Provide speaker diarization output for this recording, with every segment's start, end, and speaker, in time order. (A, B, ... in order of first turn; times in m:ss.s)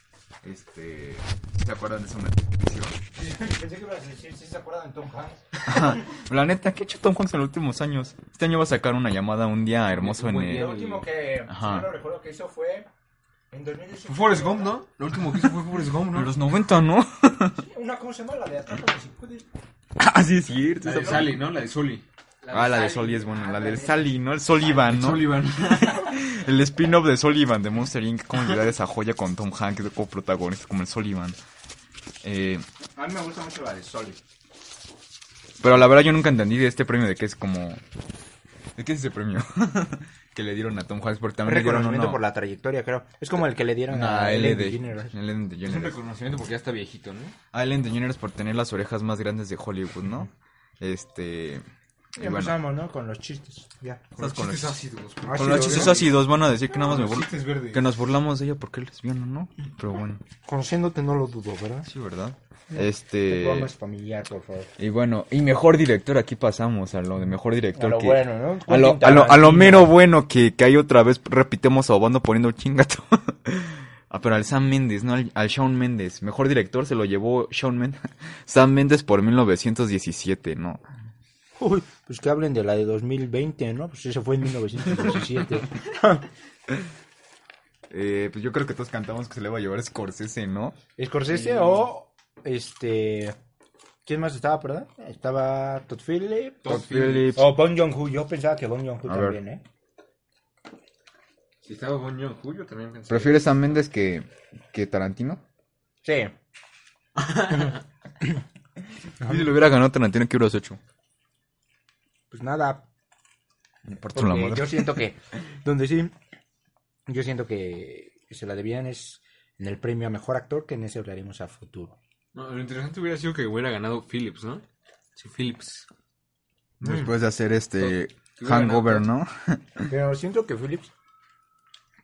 0:00.4-0:03.0 A
0:03.2-0:06.0 B
0:05.6-0:10.7 A
0:09.9-0:11.1 C
0:10.5-0:12.9 B
0:11.5-0:11.9 A
0:13.5-0:14.8 B
0:14.1-0:16.4 C
0:15.4-0:17.6 A
0:17.6-0:19.5 B
0:20.0-0:21.4 A
0:20.8-0:22.0 C
0:22.4-0:24.1 B
0:22.5-0:31.4 A
0:24.6-0:26.1 C
0:32.2-0:32.6 A
0:33.0-0:34.2 B
0:35.6-0:37.8 A
0:38.8-0:42.2 A
0:41.4-0:45.2 B
0:43.9-0:46.0 A
0:45.6-0:47.4 C
0:47.5-0:51.6 A
0:52.2-0:54.1 B
0:52.2-0:52.6 A
0:54.2-0:54.8 A
0:54.2-0:56.2 C
0:55.2-0:56.0 B
0:55.3-1:00.2 A
0:56.8-0:57.9 C
1:00.4-1:01.9 B
1:01.8-1:03.7 A
1:02.7-1:04.7 B
1:04.8-1:20.8 A
1:07.8-1:10.0 B
1:21.6-1:26.2 B
1:27.9-1:30.8 A
1:31.0-1:33.4 B
1:31.3-1:31.9 C
1:34.1-1:39.6 B
1:36.6-1:37.4 C
1:36.6-1:37.5 A
1:39.1-1:39.4 A
1:41.6-1:43.6 C
1:43.1-1:45.4 A
1:46.0-1:46.3 B
1:47.2-1:47.8 C
1:49.2-1:50.8 A
1:49.2-1:49.5 B
1:52.3-1:52.8 B
1:53.9-1:55.0 A
1:54.1-1:56.1 B
1:57.1-2:02.0 B
2:02.3-2:04.6 C
2:05.2-2:05.9 C
2:06.8-2:09.9 A
2:06.8-2:07.1 B
2:07.8-2:09.1 C
2:09.9-2:10.9 B